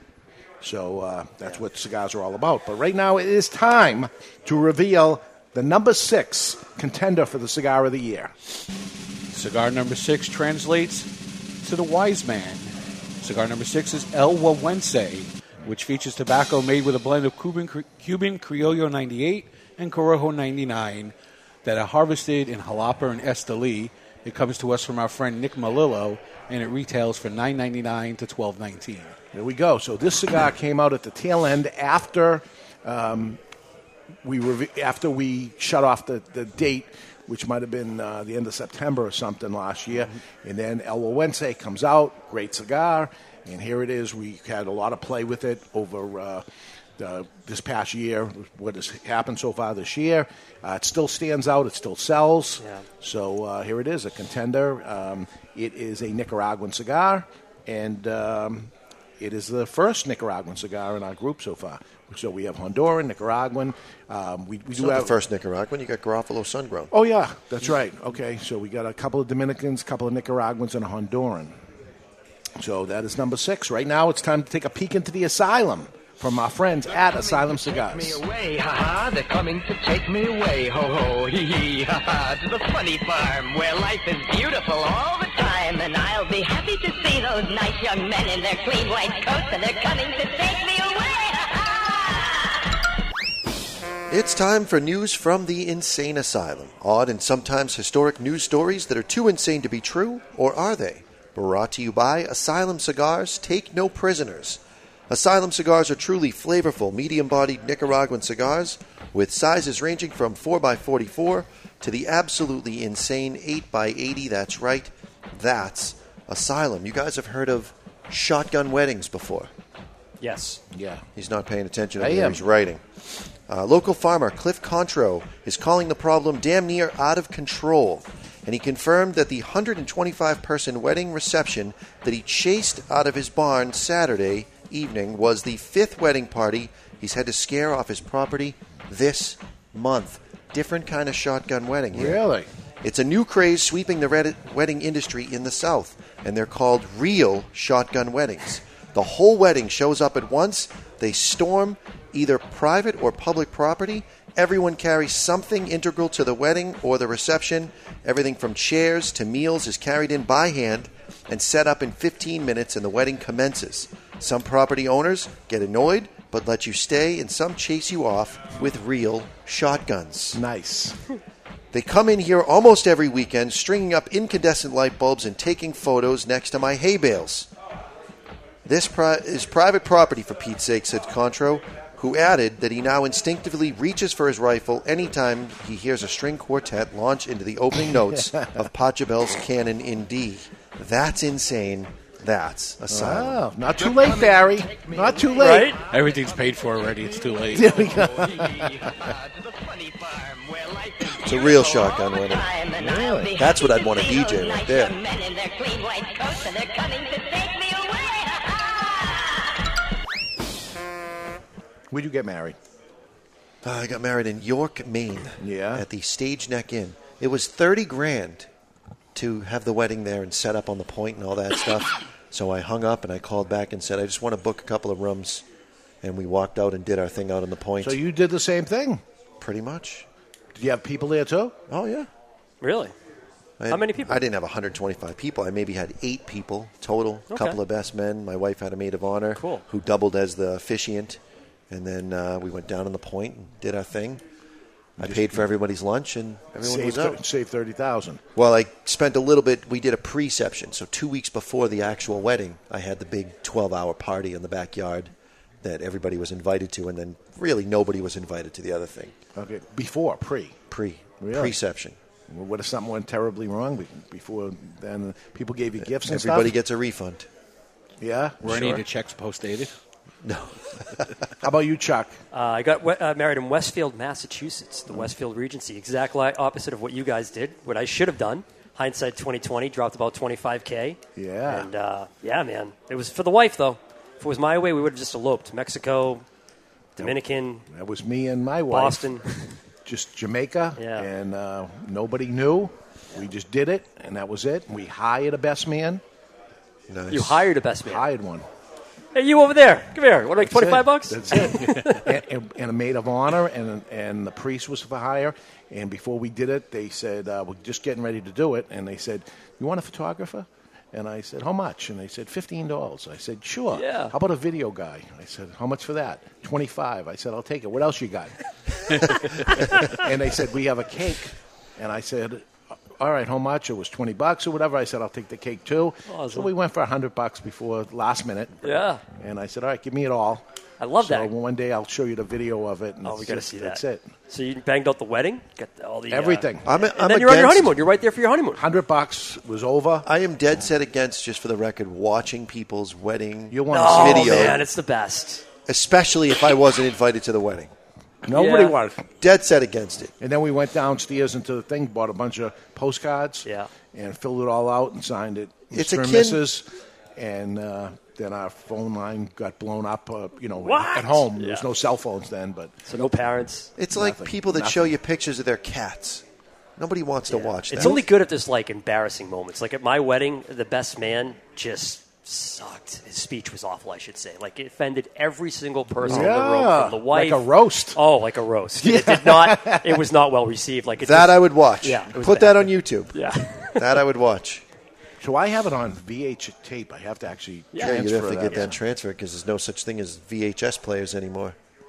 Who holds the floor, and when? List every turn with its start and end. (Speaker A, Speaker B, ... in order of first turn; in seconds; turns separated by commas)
Speaker A: 0.6-8.3, Speaker B: 9.3-11.1, Speaker B: 11.6-21.1, Speaker B: 21.6-29.1, Speaker A: 29.3-33.4, Speaker A: 34.2-46.4, Speaker A: 47.0-65.1, Speaker C: 52.6-52.9, Speaker D: 64.7-66.9, Speaker A: 66.9-71.5, Speaker A: 72.6-78.2, Speaker E: 77.8-92.6, Speaker D: 94.1-119.5, Speaker C: 120.2-120.6, Speaker A: 120.7-121.0, Speaker D: 121.2-122.8, Speaker A: 122.0-122.4, Speaker D: 123.5-142.2, Speaker A: 141.9-142.5, Speaker D: 142.8-170.4, Speaker A: 170.3-171.0, Speaker D: 171.7-177.5, Speaker D: 178.7-193.4, Speaker A: 187.9-188.6, Speaker A: 192.9-195.7, Speaker C: 195.3-195.8, Speaker E: 195.9-196.5, Speaker B: 195.9-198.0, Speaker A: 197.5-199.0, Speaker E: 198.1-209.8, Speaker D: 201.2-202.4, Speaker A: 202.8-203.3, Speaker D: 203.3-204.9, Speaker A: 211.9-212.6, Speaker D: 213.6-218.5, Speaker A: 215.4-215.8, Speaker D: 219.1-225.4, Speaker D: 226.0-228.0, Speaker A: 227.8-229.0, Speaker D: 229.4-230.1, Speaker A: 230.6-231.6, Speaker D: 231.7-232.1, Speaker C: 232.6-232.9, Speaker D: 233.6-244.2, Speaker C: 233.7-234.2, Speaker C: 237.3-237.6, Speaker C: 239.3-239.6, Speaker A: 245.0-245.5, Speaker D: 245.0-247.2, Speaker A: 246.6-248.2, Speaker D: 248.3-259.1, Speaker A: 259.4-260.6, Speaker D: 260.7-261.9, Speaker A: 261.2-261.6, Speaker A: 262.3-266.5, Speaker D: 265.8-267.3, Speaker A: 268.0-268.8, Speaker D: 268.4-268.8, Speaker B: 268.4-269.7, Speaker D: 270.2-270.7, Speaker A: 271.4-272.1, Speaker C: 272.3-286.2, Speaker A: 281.1-281.7, Speaker C: 286.9-287.6, Speaker A: 287.7-289.2, Speaker C: 288.7-289.2, Speaker A: 289.9-296.0, Speaker C: 290.8-291.1, Speaker D: 296.9-297.4, Speaker C: 297.1-298.0, Speaker A: 297.8-298.4, Speaker C: 299.1-302.0, Speaker A: 300.4-318.3, Speaker C: 313.7-314.1, Speaker A: 319.8-322.4, Speaker A: 323.0-330.4, Speaker C: 326.1-326.5, Speaker C: 328.6-329.0, Speaker C: 330.8-331.3, Speaker A: 331.0-334.1, Speaker C: 333.0-338.6, Speaker A: 336.1-336.7, Speaker D: 336.6-337.8, Speaker A: 338.6-340.1, Speaker D: 340.0-344.6, Speaker A: 343.5-344.6, Speaker C: 343.7-345.4, Speaker D: 345.7-347.7, Speaker A: 348.3-349.0, Speaker C: 348.3-348.8, Speaker D: 349.2-350.1, Speaker A: 350.2-362.7, Speaker D: 355.7-356.4, Speaker C: 360.6-361.7, Speaker C: 362.9-363.7, Speaker D: 363.8-366.2, Speaker A: 363.9-364.9, Speaker D: 366.8-368.0, Speaker C: 367.3-383.9, Speaker A: 376.0-378.0, Speaker A: 378.8-380.0, Speaker D: 381.0-383.1, Speaker D: 383.8-384.6, Speaker A: 385.2-388.7, Speaker C: 387.7-388.7, Speaker D: 387.8-391.6